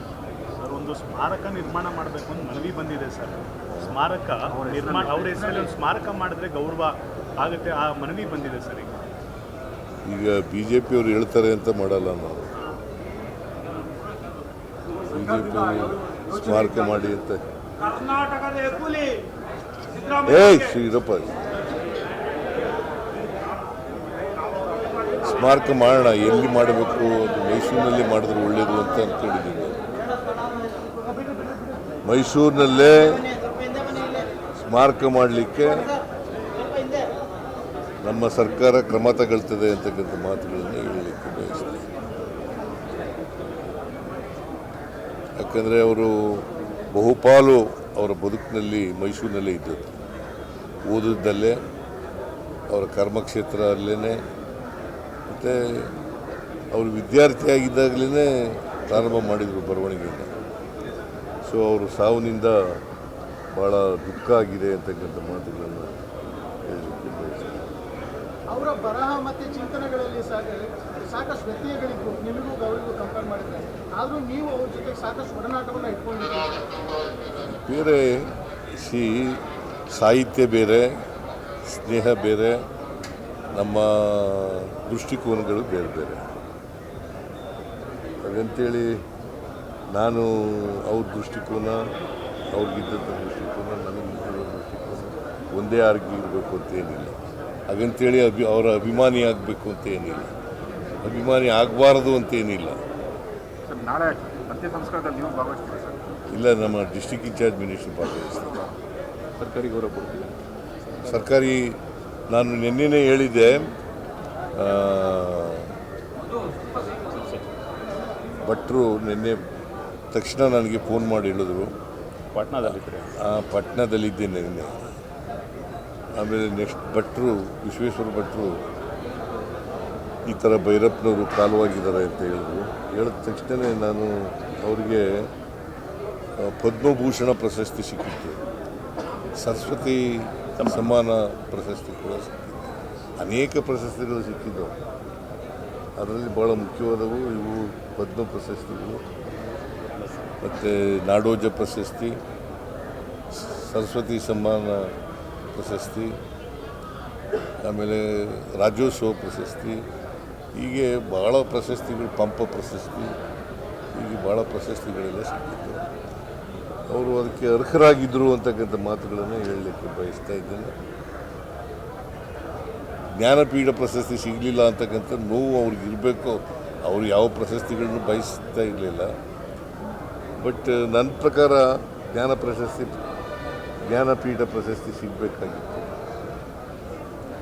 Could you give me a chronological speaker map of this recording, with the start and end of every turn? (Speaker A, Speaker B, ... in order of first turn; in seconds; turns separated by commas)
Speaker A: 0.6-9.0, Speaker B: 4.6-5.7, Speaker C: 10.1-12.5, Speaker C: 15.1-17.4, Speaker C: 20.2-21.3, Speaker C: 25.2-29.8, Speaker C: 32.0-33.3, Speaker C: 34.5-35.9, Speaker C: 38.0-41.9, Speaker C: 45.4-50.0, Speaker C: 50.9-51.6, Speaker C: 52.7-54.2, Speaker C: 55.3-56.0, Speaker C: 56.7-60.3, Speaker C: 61.5-62.8, Speaker C: 63.5-66.0, Speaker C: 66.7-67.7, Speaker D: 68.5-76.6, Speaker C: 77.5-81.0, Speaker C: 81.7-82.6, Speaker C: 83.5-86.2, Speaker C: 88.2-89.0, Speaker C: 89.9-91.9, Speaker C: 92.5-100.3, Speaker C: 101.0-102.8, Speaker B: 103.7-106.2, Speaker C: 106.3-108.7, Speaker B: 109.4-110.3, Speaker C: 111.0-113.7, Speaker C: 114.5-115.7, Speaker C: 118.5-119.4, Speaker C: 120.1-121.8, Speaker A: 122.3-123.1, Speaker C: 122.6-124.8, Speaker C: 126.2-128.6, Speaker C: 130.3-135.3, Speaker C: 136.4-138.4, Speaker C: 139.4-144.8, Speaker C: 146.0-149.1, Speaker C: 150.4-152.2, Speaker C: 153.3-154.9, Speaker C: 155.5-156.2, Speaker C: 157.6-159.9, Speaker C: 160.5-163.2, Speaker C: 163.9-165.9, Speaker C: 166.9-170.8, Speaker C: 173.2-179.1, Speaker C: 180.4-183.0, Speaker C: 183.9-185.9